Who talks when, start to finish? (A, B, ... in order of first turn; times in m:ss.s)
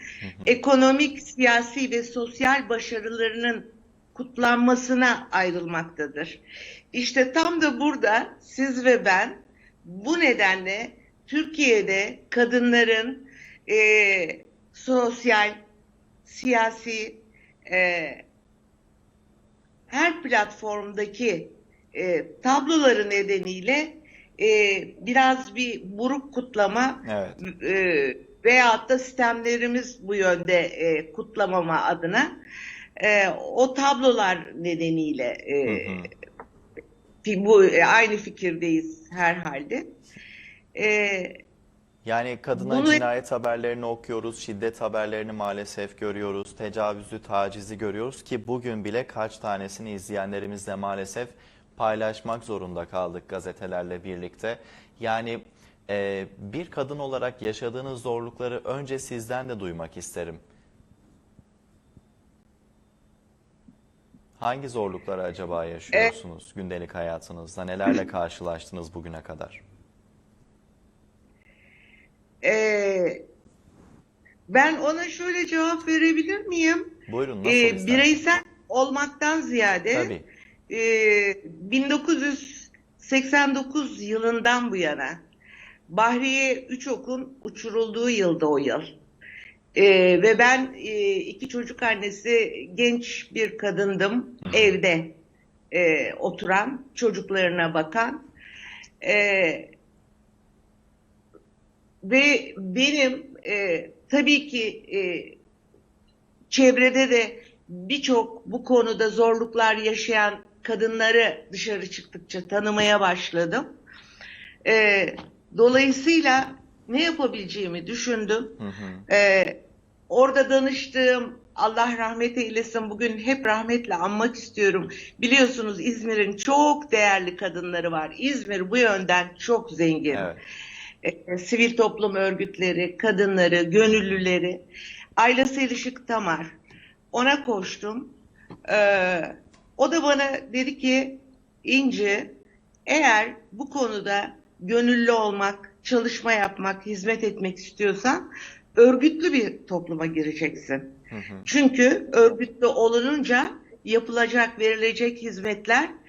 0:00.2-0:00.6 A
0:00.4-0:06.4 B
0:06.9-0:15.6 B
0:16.2-0:18.2 B
0:19.9-0:32.3 B
0:27.0-0:27.4 A
0:33.0-0:35.9 B
0:35.6-0:36.1 A
0:37.2-0:39.9 B
0:40.8-0:41.4 B
0:42.0-1:00.4 A
0:42.6-0:43.0 B
1:04.4-1:09.6 A
1:12.4-1:13.2 B
1:14.5-1:16.9 B
1:17.1-1:18.1 A
1:17.4-1:20.1 B
1:19.9-1:20.2 A
1:20.7-1:25.2 B
1:25.9-1:28.9 B
1:29.7-1:35.1 B
1:34.4-1:34.8 A
1:35.7-1:38.2 B
1:39.0-1:39.7 B
1:42.0-1:45.4 B
1:46.5-1:53.7 B
1:54.6-1:58.6 B
1:58.6-1:59.0 A
1:59.1-1:59.6 B
2:00.1-2:10.3 B
2:10.1-2:10.4 A
2:11.0-2:14.6 B
2:15.2-2:16.6 B
2:17.1-2:18.1 B
2:18.7-2:22.3 B
2:22.9-2:28.2 B
2:28.8-2:30.9 B
2:31.1-2:31.5 A
2:31.4-2:35.9 B